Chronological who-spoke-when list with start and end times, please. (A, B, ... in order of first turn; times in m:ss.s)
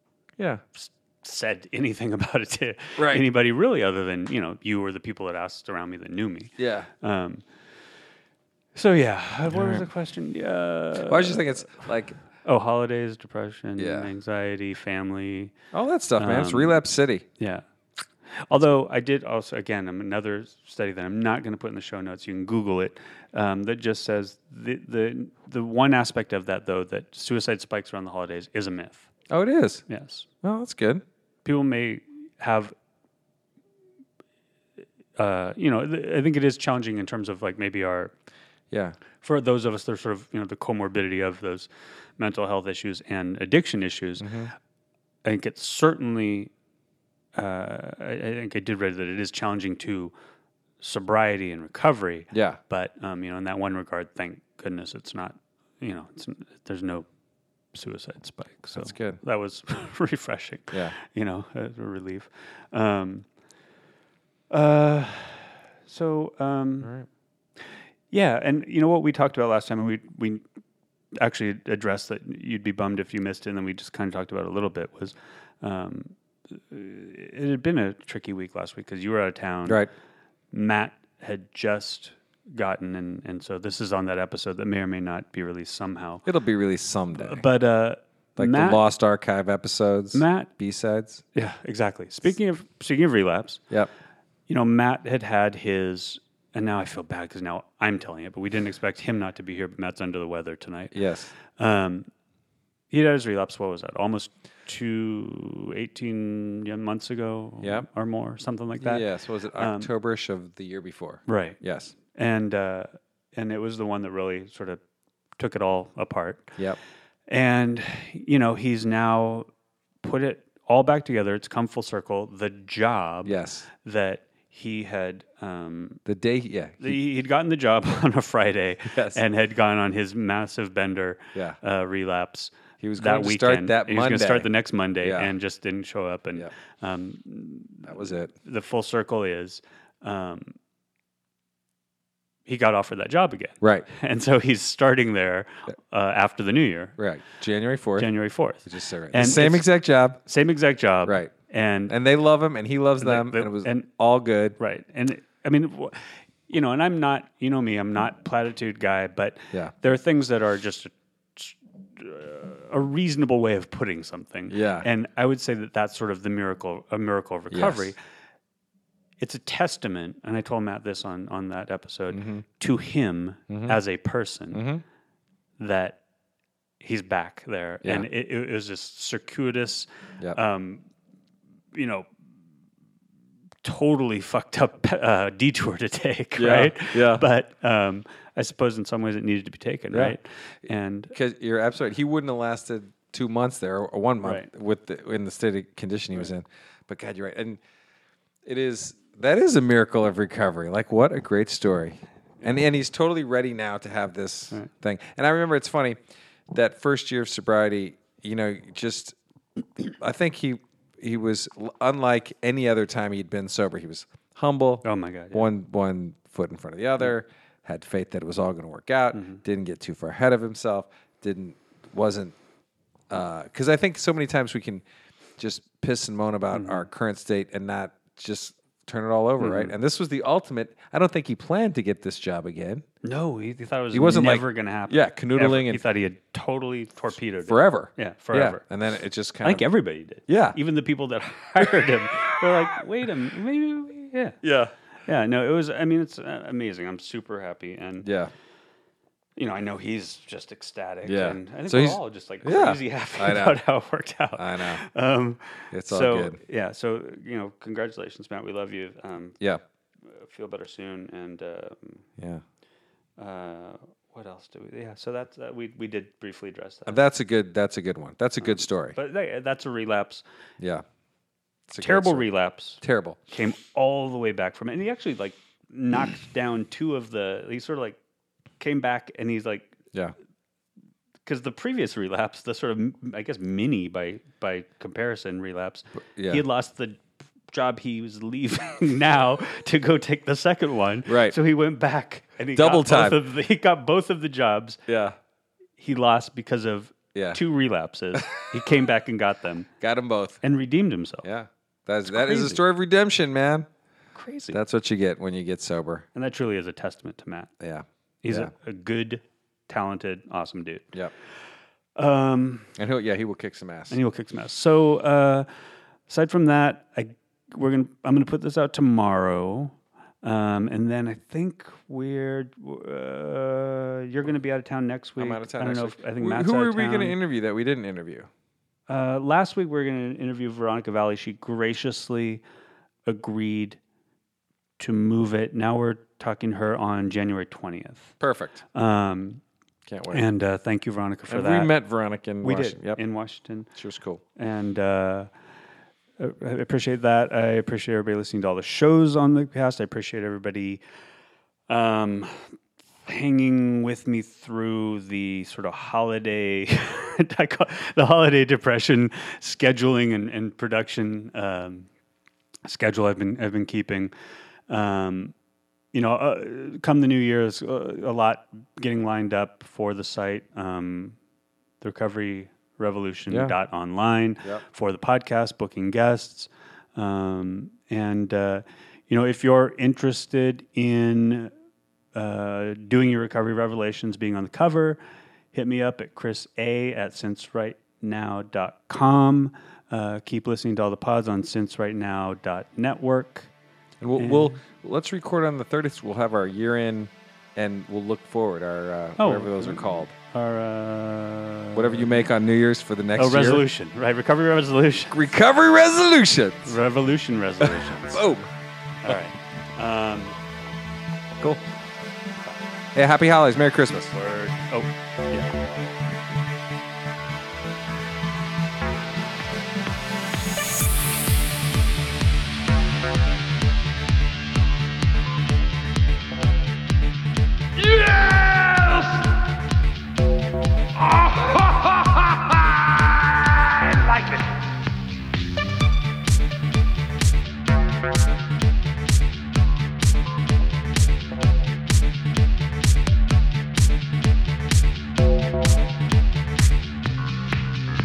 0:00.7-0:07.4 A
0:03.0-0:03.2 B
0:06.6-0:06.9 B
0:08.7-0:15.5 A
0:09.5-0:09.9 B
0:11.1-0:12.2 B
0:13.8-0:14.1 B
0:15.7-0:17.2 B
0:16.2-0:16.8 A
0:17.4-0:17.6 A
0:18.2-0:29.1 A
0:29.3-0:29.8 B
0:29.9-0:30.3 A
0:30.4-0:31.0 B
0:31.4-0:32.7 A
0:35.2-0:38.1 A
0:38.7-0:39.0 B
0:39.2-0:44.5 A
0:44.2-0:44.5 B
0:45.2-0:46.5 A
0:47.3-0:50.1 A
0:50.8-0:57.0 A
0:52.3-0:52.6 B
0:57.7-1:03.2 A
0:58.7-0:59.2 B
1:04.5-1:06.9 A
1:08.1-1:10.4 A
1:11.1-1:19.8 A
1:19.6-1:19.9 B
1:20.5-1:26.2 A
1:26.2-1:27.4 B
1:27.1-1:28.8 A
1:28.4-1:31.2 B
1:30.1-1:30.5 A
1:31.3-1:33.6 A
1:34.5-1:42.1 A
1:40.9-1:41.3 B
1:42.9-1:49.9 A
1:47.6-1:47.9 B
1:48.8-1:51.9 B
1:51.3-1:51.6 A
1:52.1-1:54.8 A
1:55.4-1:56.6 A
1:57.3-1:59.5 A
2:00.0-2:06.0 A
2:03.2-2:03.6 B
2:06.0-2:07.0 B
2:06.8-2:20.6 A
2:08.9-2:09.2 B
2:12.8-2:14.5 B
2:15.0-2:15.3 B
2:17.8-2:18.3 B
2:22.5-2:27.0 A
2:23.6-2:23.9 B
2:27.0-2:28.1 B
2:28.0-2:29.7 A
2:28.6-2:30.2 B
2:30.2-2:31.9 A
2:31.0-2:31.3 B
2:31.9-2:34.6 B
2:33.0-2:33.9 A
2:34.6-2:48.0 A
2:44.5-2:44.9 B
2:47.5-2:47.9 B
2:49.2-2:54.6 A
2:52.1-2:52.4 B
2:53.5-2:53.8 B
2:54.5-2:54.8 B
2:55.6-2:56.0 A
2:56.8-3:00.8 A
3:01.7-3:02.1 A
3:03.6-3:11.1 A
3:06.4-3:07.2 B
3:11.1-3:17.6 B
3:14.2-3:14.5 A
3:18.4-3:26.0 B
3:26.5-3:29.2 B
3:29.8-3:42.3 B
3:34.8-3:35.5 A
3:39.1-3:39.4 A
3:43.1-3:44.8 B
3:45.4-3:52.8 B
3:46.5-3:46.9 A
3:49.4-3:49.7 A
3:53.0-3:58.6 A
3:53.9-3:55.8 B
3:57.4-3:59.6 B
3:59.4-4:04.4 A
4:00.2-4:00.6 B
4:04.4-4:04.7 B
4:05.0-4:08.1 A
4:08.0-4:08.3 B
4:09.4-4:19.4 A
4:11.0-4:13.6 B
4:14.4-4:14.8 B
4:15.7-4:16.4 B
4:20.0-4:22.0 A
4:22.2-4:22.4 B
4:23.2-4:27.0 A
4:26.8-4:29.0 B
4:28.4-4:30.2 A
4:30.6-4:30.8 B
4:31.7-4:32.3 B
4:31.8-4:38.0 A
4:32.8-4:33.2 B
4:38.6-4:39.8 A
4:41.2-4:54.8 A
4:46.2-4:46.4 B
4:51.0-4:51.4 B
4:52.5-4:53.2 B
4:54.9-4:55.2 B
4:55.8-4:59.7 A
4:57.1-4:57.4 B
4:58.1-4:58.4 B
4:59.8-5:00.4 B
5:00.4-5:01.2 A
5:01.2-5:03.7 B
5:02.0-5:02.6 A
5:04.1-5:04.6 A
5:04.5-5:06.0 B
5:06.1-5:07.5 A
5:07.6-5:08.5 B
5:08.2-5:11.0 A
5:12.0-5:12.7 A
5:12.8-5:14.0 B
5:13.9-5:15.5 A
5:16.1-5:27.2 A
5:25.2-5:28.3 B
5:28.9-5:32.4 A
5:33.0-5:33.8 A
5:34.8-5:38.2 A
5:38.2-5:38.6 B
5:38.7-5:39.4 A
5:39.9-5:40.2 B
5:40.1-5:41.7 A
5:41.3-5:43.0 B
5:42.4-5:43.7 A
5:43.7-5:44.2 B
5:44.4-5:45.3 A
5:46.2-5:50.8 A
5:51.7-5:52.5 A
5:53.0-6:01.9 A
6:02.6-6:04.1 A
6:04.7-6:05.3 A
6:05.9-6:11.2 A
6:11.8-6:21.5 A
6:13.3-6:13.5 B
6:22.1-6:25.0 A
6:25.5-6:33.5 A
6:34.0-6:40.1 B
6:34.2-6:34.6 A
6:39.2-6:42.2 A
6:41.7-6:43.6 B
6:43.2-6:45.3 A
6:45.1-6:46.8 B
6:46.6-6:48.2 A
6:47.6-6:48.5 B
6:49.0-6:50.4 A
6:52.9-6:54.1 B
6:54.1-6:55.6 A